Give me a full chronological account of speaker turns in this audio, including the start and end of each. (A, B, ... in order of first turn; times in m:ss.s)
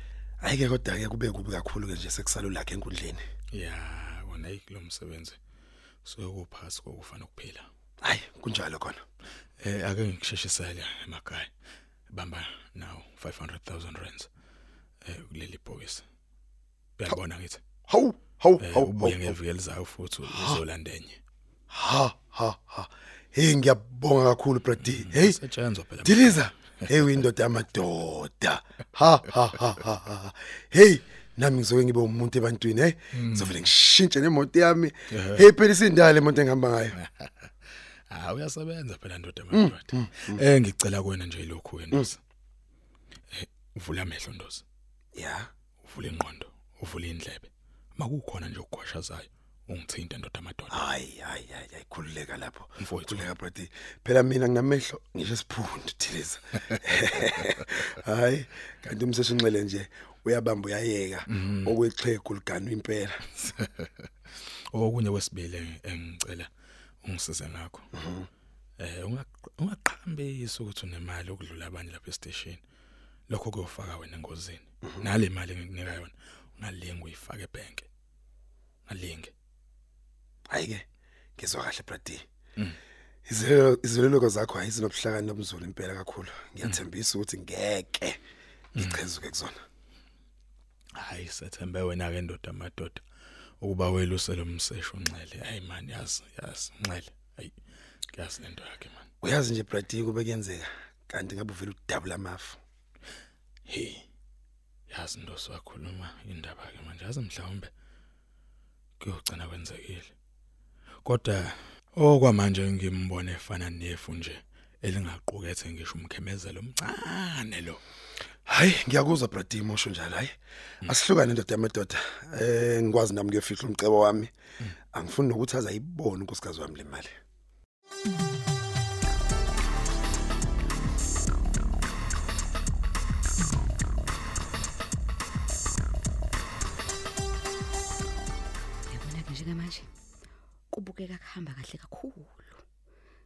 0:00.4-0:03.2 A
0:03.5-0:05.4 B
0:06.0-0:07.7 B
0:08.0-0:09.0 A
0:09.6-0:11.5 B
0:12.1-0:14.3 B
0:15.0-0:16.0 B
0:17.0-0:17.6 B
0:17.9-0:19.4 A
0:18.6-0:21.2 B
0:20.3-0:20.6 A
0:21.7-0:25.4 A
0:24.8-0:26.5 B
0:26.0-0:37.0 A
0:33.1-0:33.6 B
0:35.1-0:35.5 B
0:37.0-0:37.3 B
0:38.1-0:42.2 B
0:39.5-0:40.4 A
0:43.3-0:44.6 B
0:45.1-0:45.5 A
0:45.8-0:50.8 B
0:50.7-1:03.3 A
0:52.8-0:53.3 B
1:01.3-1:01.7 B
1:03.4-1:03.9 B
1:04.7-1:06.5 B
1:07.0-1:07.8 B
1:08.0-1:08.3 A
1:08.8-1:12.6 B
1:13.3-1:17.9 B
1:18.9-1:19.3 B
1:20.5-1:20.8 A
1:21.4-1:22.2 A
1:23.3-1:28.2 A
1:28.7-1:29.6 A
1:30.9-1:33.0 B
1:33.6-1:37.5 B
1:38.1-1:39.1 B
1:39.2-1:42.6 A
1:43.7-1:44.0 B
1:44.9-1:47.7 B
1:49.0-1:50.1 B
1:51.0-1:57.8 B
1:58.5-2:00.3 A
2:00.8-2:04.3 A
2:04.9-2:07.1 A
2:18.9-2:19.9 C
2:20.7-2:22.6 C